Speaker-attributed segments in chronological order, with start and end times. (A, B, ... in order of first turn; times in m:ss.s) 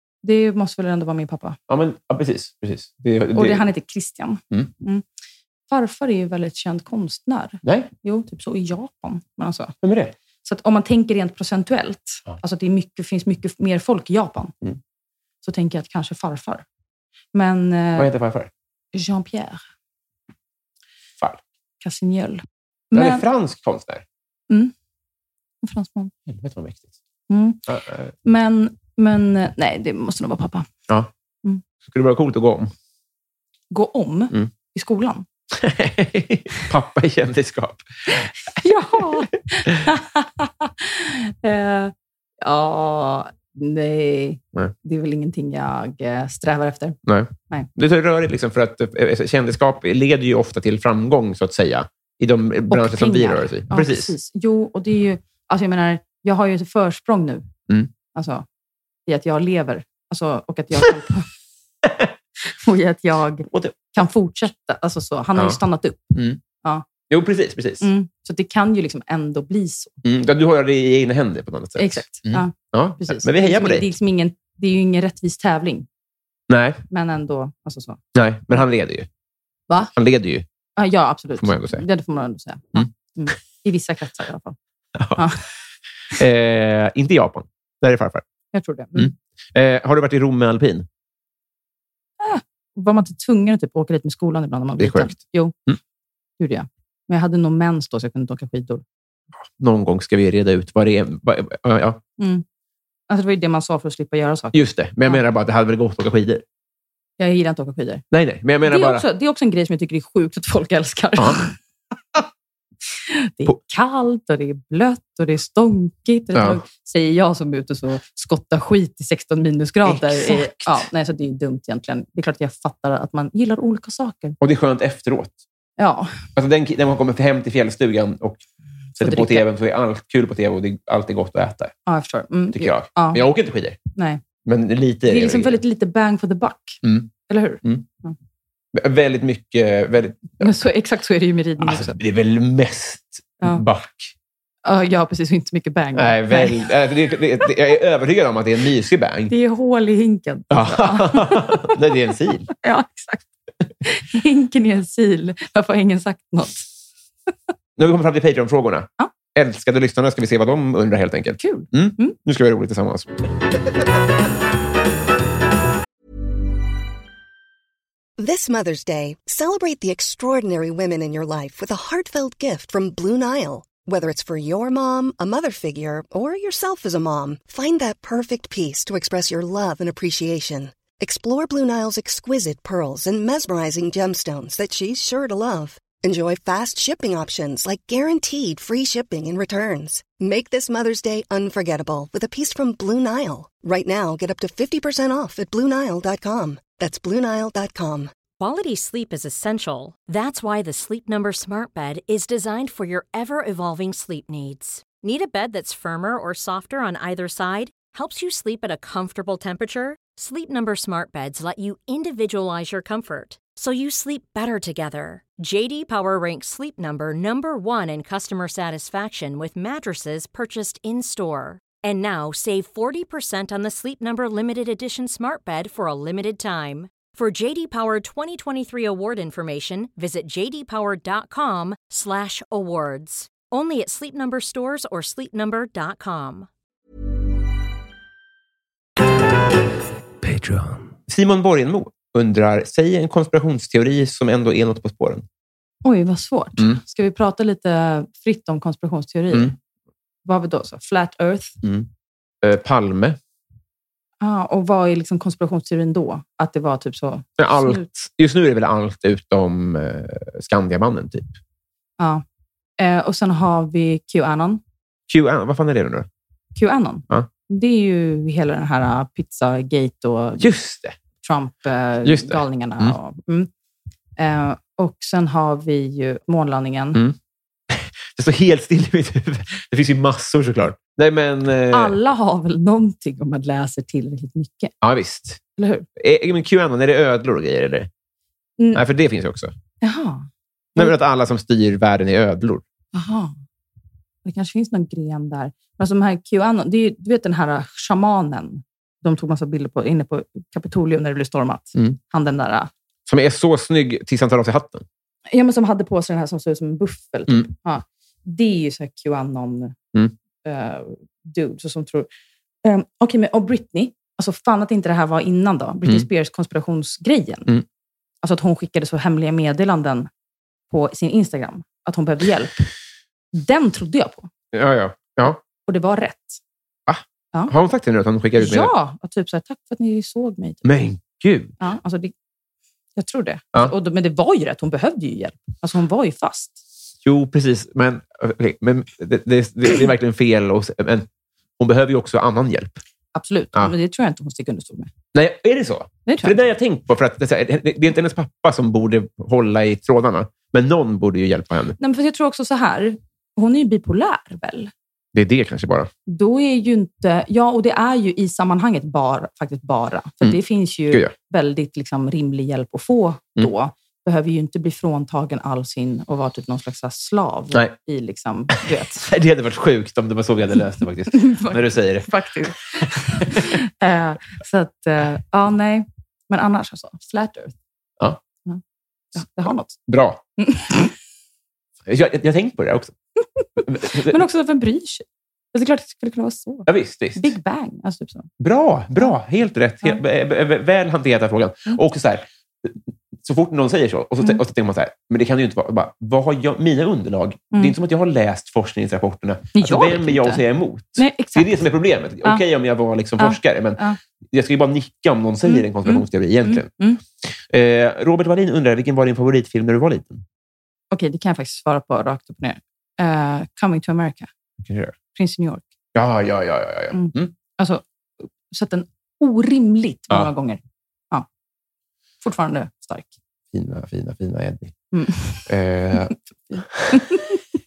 0:00.2-0:01.6 A
0:01.7-0:03.6 B
0:03.3-0:05.0 A
0:05.7-0:09.7 A
0:07.6-0:07.9 B
0:09.8-0:10.1 B
0:10.4-0:14.5 A
0:15.4-0:16.6 A
0:17.3-0:18.1 A
0:18.0-0:18.5 B
0:18.9-0:19.6 A
0:21.8-0:23.2 A
0:22.9-0:24.0 B
0:25.6-0:26.1 A
0:26.2-0:26.9 B
0:27.3-0:27.6 A
0:27.6-0:28.1 B
0:28.2-0:30.7 A
0:31.8-0:32.7 B
0:33.7-0:35.2 A
0:35.5-0:39.8 B
0:38.6-0:47.0 A
0:47.0-0:54.1 B
0:52.7-0:57.5 A
0:58.1-0:58.4 A
0:59.1-1:01.3 A
1:01.8-1:02.1 B
1:02.4-1:06.8 A
1:03.5-1:03.9 B
1:06.1-1:06.4 B
1:07.1-1:07.9 B
1:07.8-1:09.9 A
1:10.0-1:13.9 B
1:11.8-1:15.9 A
1:16.5-1:16.8 B
1:16.9-1:18.0 A
1:18.1-1:19.1 B
1:19.9-1:20.4 B
1:20.8-1:24.6 A
1:21.4-1:21.8 B
1:25.0-1:25.2 B
1:25.1-1:25.4 A
1:26.1-1:28.2 B
1:28.5-1:29.1 A
1:28.9-1:30.9 B
1:32.2-1:35.6 A
1:34.8-1:35.8 B
1:36.4-1:38.8 A
1:39.4-1:42.0 B
1:42.2-1:42.4 A
1:43.1-1:45.2 A
1:44.5-1:46.4 B
1:47.2-1:48.0 A
1:48.1-1:49.0 B
1:48.6-1:51.6 A
1:52.9-2:04.4 A
1:56.3-1:56.6 B
1:59.8-2:00.8 B
2:04.4-2:05.4 B
2:05.8-2:06.2 A
2:06.4-2:08.4 B
2:09.0-2:11.7 B
2:09.0-2:09.4 A
2:11.8-2:13.2 A
2:12.5-2:13.8 B
2:14.0-2:14.2 A
2:14.4-2:15.6 B
2:15.0-2:18.1 A
2:16.8-2:17.1 B
2:18.7-2:20.5 B
2:20.4-2:22.0 A
2:21.6-2:24.1 B
2:24.6-2:26.7 A
2:25.9-2:29.3 B
2:29.3-2:31.8 A
2:30.5-2:32.5 B
2:32.6-2:33.3 A
2:33.8-2:36.7 A
2:37.8-2:43.1 B
2:41.4-2:42.2 A
2:48.2-3:18.1 C
3:18.4-3:56.5 D
4:00.3-4:05.2 B
4:05.8-4:09.5 A
4:10.2-4:11.6 A
4:11.6-4:11.9 B
4:12.4-4:13.2 B
4:14.2-4:17.8 A
4:17.4-4:21.4 B
4:22.0-4:22.2 A
4:22.8-4:24.6 A
4:25.1-4:26.1 B
4:26.6-4:30.5 A
4:30.4-4:31.0 B
4:31.2-4:33.5 A
4:32.0-4:33.0 B
4:34.2-4:37.0 A
4:37.7-4:42.0 B
4:41.7-4:44.7 A
4:44.8-4:45.4 B
4:45.6-4:45.8 A
4:46.0-4:47.9 B
4:48.6-4:48.8 A
4:48.7-4:49.5 B
4:49.8-4:50.9 A
4:50.8-4:52.6 B
4:52.9-4:53.4 A
4:54.2-5:02.7 A
5:03.1-5:04.8 B
5:05.3-5:09.8 A
5:10.4-5:12.1 A
5:12.6-5:17.5 A
5:18.2-5:20.1 A
5:20.7-5:22.7 A
5:23.3-5:24.3 A
5:24.5-5:25.4 B
5:25.6-5:26.4 A
5:26.9-5:28.7 B
5:28.4-5:30.6 A
5:30.6-5:31.5 B
5:31.6-5:32.1 A
5:33.0-5:36.6 A
5:37.0-5:41.1 B
5:41.6-5:42.8 B
5:43.1-5:44.9 A
5:45.1-5:51.8 B
5:46.1-5:46.4 A
5:51.8-5:54.7 A
5:55.1-5:55.9 B
5:56.1-6:09.1 A
6:09.0-6:12.1 B
6:11.1-6:17.5 A
6:12.8-6:13.5 B
6:19.1-6:19.8 A
6:19.9-6:20.2 B
6:20.4-6:20.9 A
6:21.8-6:22.9 B
6:23.4-6:28.3 A
6:23.6-6:24.2 B
6:26.7-6:27.3 B
6:28.4-6:46.7 B
6:39.5-6:40.4 A
6:41.0-6:41.6 A
6:43.2-6:44.0 A
6:45.4-6:47.0 A
6:47.2-6:50.2 B
6:50.9-6:54.3 A
6:54.6-6:54.9 B
6:55.1-6:55.6 A
6:55.9-6:57.3 B
6:56.9-7:01.2 A
7:02.2-7:03.1 A
7:03.5-7:04.7 B
7:04.9-7:05.5 A
7:05.4-7:07.0 B
7:06.5-7:07.4 A